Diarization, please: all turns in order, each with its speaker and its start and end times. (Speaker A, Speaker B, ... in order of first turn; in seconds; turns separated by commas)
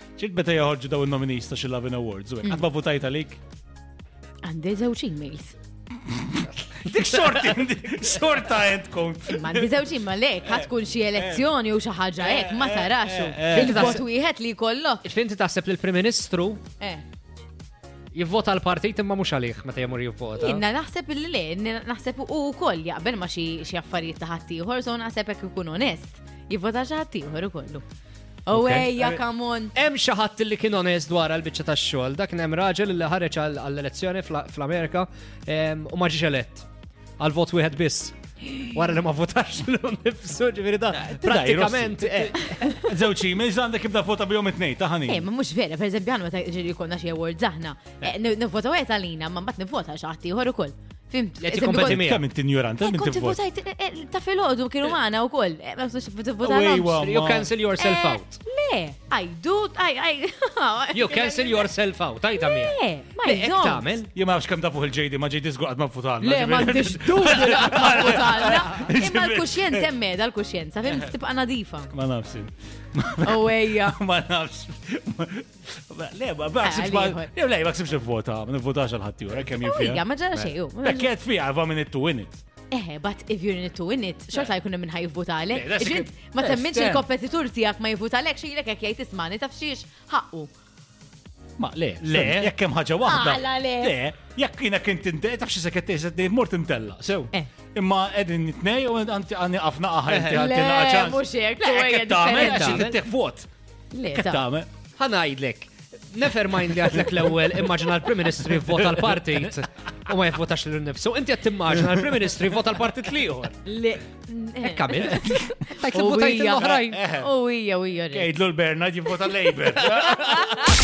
Speaker A: 0.1-3.4, Speaker B: 4.4-5.6, Speaker A: 6.0-9.9, Speaker C: 7.1-7.5, Speaker B: 9.3-15.0, Speaker A: 10.4-11.5, Speaker A: 12.2-14.0, Speaker C: 13.5-14.0, Speaker C: 15.0-16.6, Speaker C: 18.1-20.6, Speaker B: 20.4-27.8, Speaker B: 28.5-29.7, Speaker C: 28.5-29.2, Speaker C: 29.7-36.7, Speaker C: 37.2-42.6, Speaker A: 40.9-45.2, Speaker B: 42.6-42.9, Speaker B: 45.1-52.1, Speaker C: 51.4-52.2, Speaker A: 51.7-53.4, Speaker B: 52.8-57.0, Speaker A: 56.4-57.5, Speaker C: 57.0-58.4, Speaker B: 57.8-61.7, Speaker C: 60.9-64.1, Speaker B: 62.4-63.9, Speaker A: 64.1-69.9, Speaker B: 66.2-71.9, Speaker A: 70.9-71.1, Speaker A: 71.9-82.4, Speaker B: 73.2-74.0, Speaker B: 76.6-77.3, Speaker B: 79.5-81.1, Speaker B: 82.7-90.5, Speaker C: 85.5-87.0, Speaker A: 91.6-103.5, Speaker C: 92.0-92.5, Speaker B: 93.0-94.0, Speaker C: 100.1-100.4, Speaker B: 100.3-103.0, Speaker C: 102.2-103.0, Speaker B: 103.9-104.4, Speaker A: 104.1-104.7, Speaker C: 105.0-113.6, Speaker A: 108.5-109.5, Speaker A: 111.9-112.2, Speaker B: 113.6-118.3, Speaker C: 114.6-117.0, Speaker A: 116.6-117.3, Speaker A: 118.1-120.8